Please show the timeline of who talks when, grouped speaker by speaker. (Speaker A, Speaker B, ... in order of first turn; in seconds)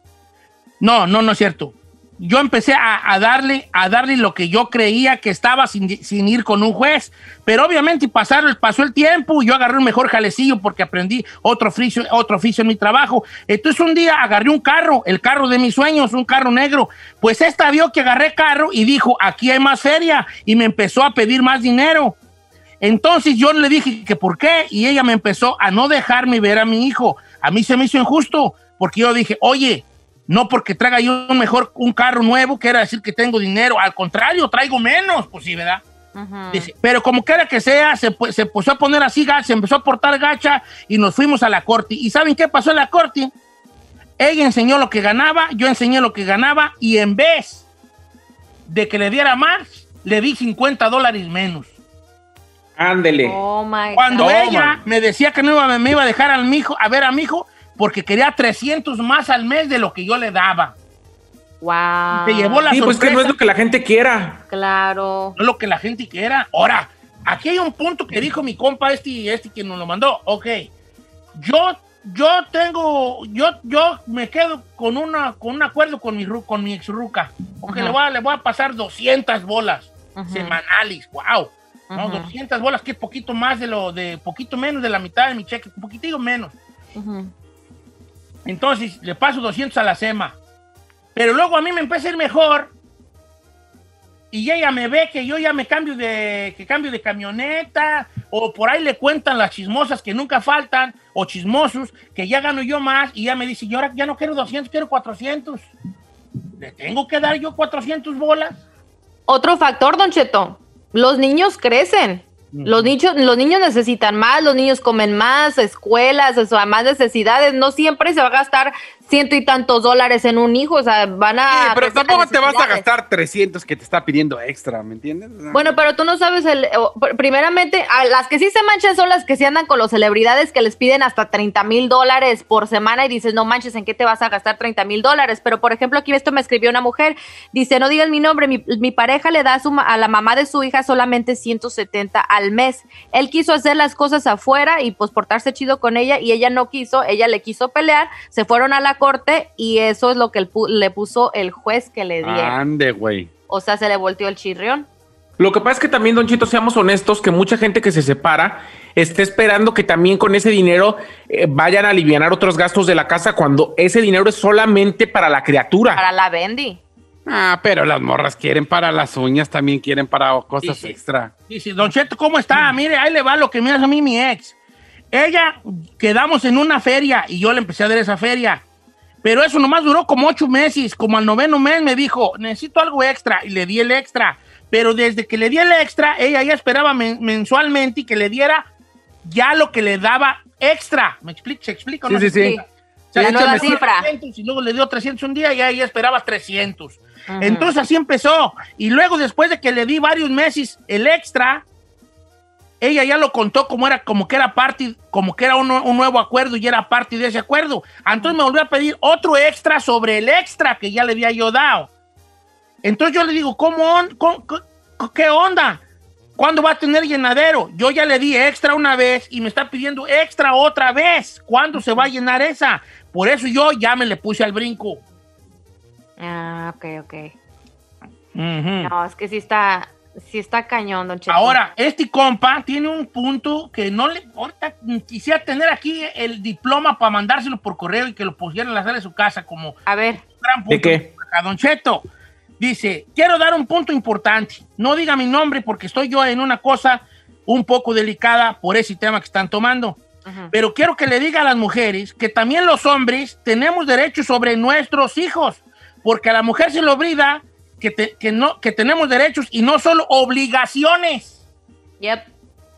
Speaker A: 0.8-22.1, 22.8-35.8, 36.5-43.3, 44.2-47.6, 48.7-51.7, 53.9-60.7, 62.2-63.4, 65.3-70.6, 71.4-86.5, 88.5-90.4, 91.1-92.7, 94.3-105.7, 106.6-108.6, 112.5-112.9, 170.6-170.9, 171.5-174.5, 175.1-178.6, 179.2-188.7, 189.2-201.6, 202.8-211.9, 212.8-215.8, 216.4-225.0, 228.3-228.9, 231.3-239.8, 240.3-242.0, 242.6-250.0, 250.5-261.4
Speaker B: 36.1-36.7, 53.2-54.3, 61.6-62.7, 64.5-65.3, 77.7-78.0, 80.2-80.6, 81.9-82.3, 86.9-87.3, 109.3-122.8, 125.5-152.6, 153.5-154.9, 165.9-166.8, 192.3-192.6, 193.2-194.1, 197.3-197.7, 226.2-227.3, 228.8-231.6, 239.9-240.2, 250.2-250.5, 262.0-262.3
Speaker C: 52.8-53.4, 54.2-54.6, 62.7-64.4, 155.4-166.0, 240.7-241.1
Speaker D: 54.2-54.7, 121.5-125.7, 152.2-153.3, 167.2-171.3, 192.1-192.6, 193.2-193.8